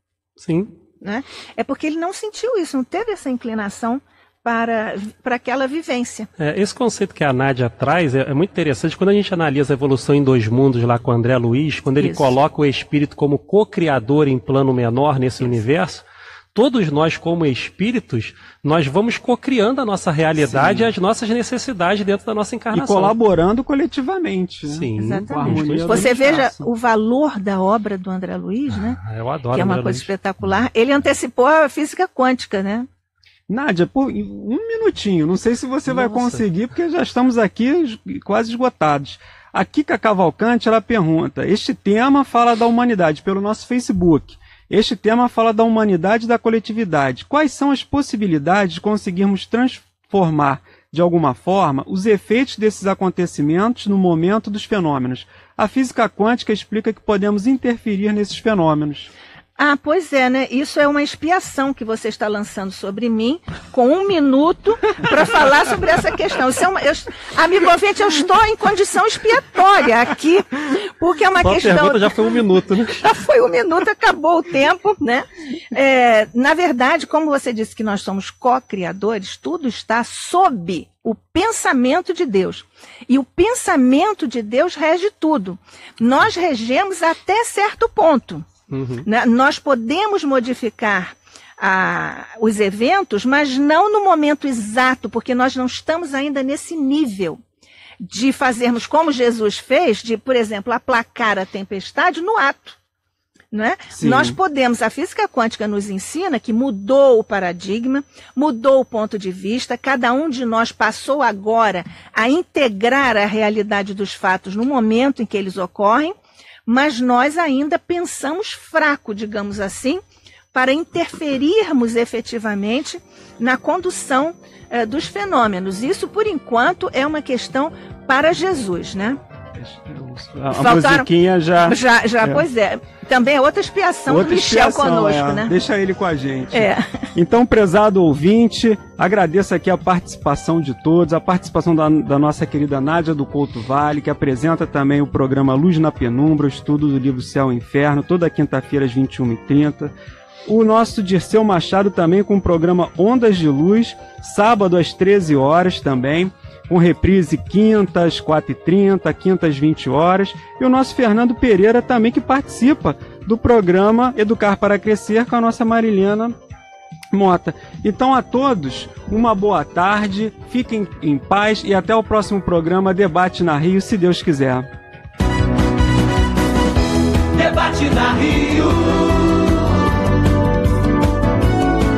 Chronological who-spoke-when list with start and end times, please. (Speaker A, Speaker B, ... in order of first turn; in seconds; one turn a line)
Speaker A: 0.4-0.7
Speaker B: 1.0-6.3
Speaker A: 6.4-16.0
Speaker B: 12.0-12.4
Speaker A: 16.5-23.1
Speaker C: 20.4-20.9
Speaker C: 22.7-26.7
Speaker A: 24.6-26.1
Speaker B: 25.0-29.0
Speaker A: 28.7-30.1
Speaker B: 29.5-32.9
Speaker C: 33.5-59.1
Speaker A: 35.9-36.4
Speaker B: 59.6-72.4
Speaker A: 71.4-73.1
Speaker B: 73.0-88.5
Speaker A: 88.7-89.0
Speaker B: 89.0-97.4
Speaker B: 98.0-102.8
Speaker B: 103.5-116.1
Speaker C: 103.9-104.4
Speaker B: 116.7-120.0
Speaker B: 120.5-129.2
Speaker C: 129.6-132.4
Speaker B: 130.6-131.1
Speaker B: 131.6-135.5
Speaker C: 134.1-149.9
Speaker B: 136.5-137.1
Speaker C: 150.5-166.3
Speaker C: 167.1-174.7
Speaker D: 177.3-179.7